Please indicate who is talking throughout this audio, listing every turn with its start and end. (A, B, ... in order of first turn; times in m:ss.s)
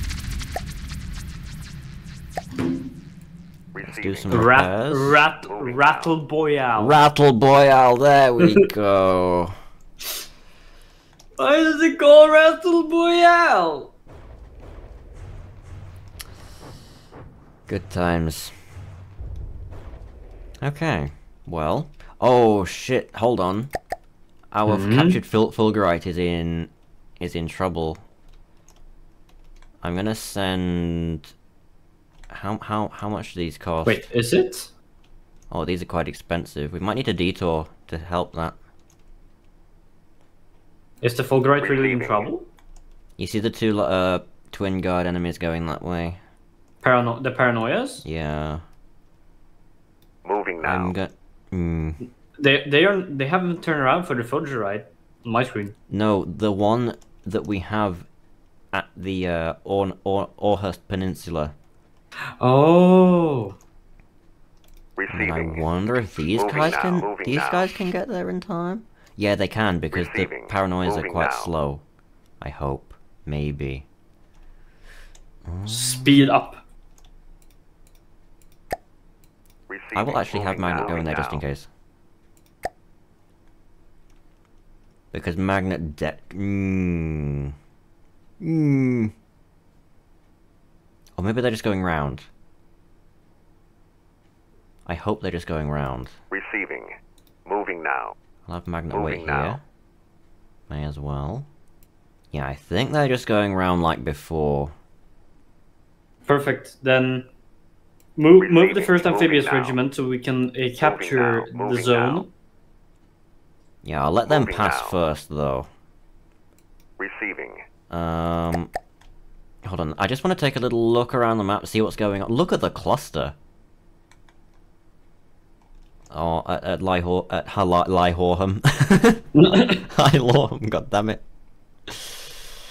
0:03.7-0:04.4 A
0:03.9-0:05.2 B
0:04.3-0:07.0 C
0:05.5-0:06.1 A
0:06.8-0:09.6 B
0:11.4-0:13.9 C
0:17.7-0:18.5 B
0:20.6-0:23.7 B
0:24.5-0:28.0 B
0:24.7-0:25.2 C
0:29.8-0:31.3 B
0:32.3-0:34.0 B
0:33.8-0:34.7 C
0:35.5-0:38.6 B
0:41.0-0:42.5 C
0:41.6-0:42.3 A
0:43.2-0:46.2 B
0:46.8-0:48.0 C
0:48.0-0:48.6 B
0:50.2-0:50.9 A
0:50.6-0:52.0 B
0:52.4-0:55.8 C
0:55.9-0:58.1 B
0:58.7-1:01.5 B
1:02.4-1:03.6 C
1:05.0-1:05.6 A
1:05.1-1:11.8 B
1:06.3-1:07.7 A
1:09.9-1:11.5 A
1:12.4-1:13.9 B
1:15.5-1:16.3 B
1:15.7-1:16.6 C
1:19.7-1:21.4 A
1:19.9-1:21.7 B
1:25.1-1:27.5 B
1:28.4-1:29.1 B
1:31.2-1:32.3 B
1:34.9-1:36.1 B
1:36.3-1:37.0 A
1:37.5-1:38.2 A
1:38.5-1:39.6 B
1:38.9-1:39.6 A
1:40.7-1:41.5 B
1:42.3-1:44.7 B
1:46.2-1:47.3 C
1:48.2-1:52.3 C
1:48.4-1:49.8 A
1:50.8-1:52.2 A
1:53.8-1:55.7 B
1:54.3-1:55.0 A
1:57.0-1:57.6 A
1:57.9-1:58.7 B
1:59.6-2:03.4 B
2:06.1-2:11.2 B
2:09.4-2:09.9 C
2:11.9-2:12.2 B